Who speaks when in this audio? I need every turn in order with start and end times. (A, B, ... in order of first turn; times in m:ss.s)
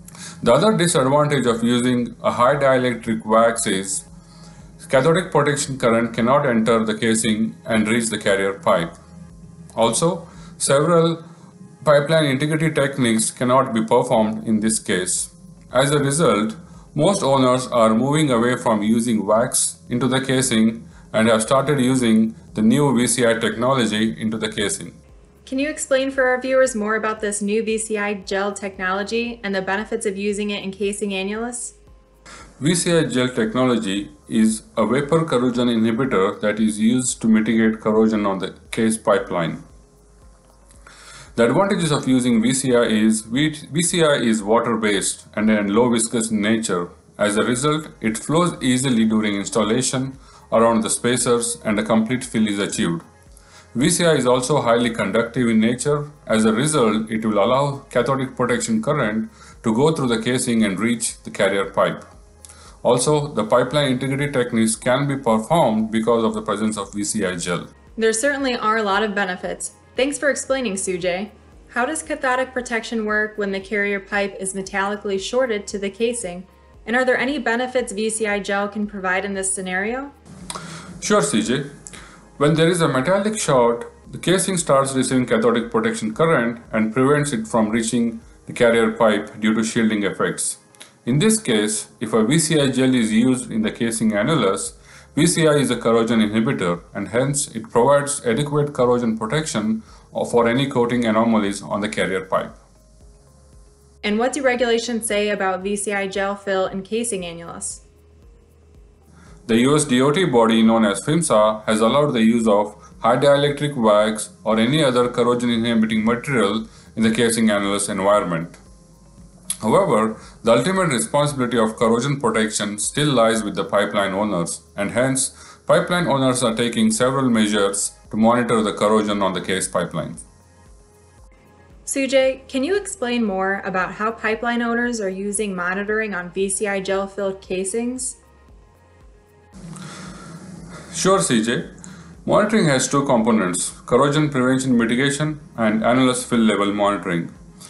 0:00.4-0:04.0 A
0:04.8-0:08.9 A
0:09.7-0:11.2 A
0:11.8-0:25.0 A
0:25.4-0:31.8 B
0:32.6-0:39.6 A
0:41.3-0:53.0 A
0:53.7-1:02.1 A
1:02.8-1:07.7 A
1:08.0-1:20.1 B
1:21.0-1:21.7 A
1:22.4-1:42.6 A
1:44.0-1:47.8 B
1:49.4-1:58.6 A
1:59.6-2:10.2 A
2:11.8-2:18.2 B
2:20.9-2:21.7 A
2:22.2-2:27.3 A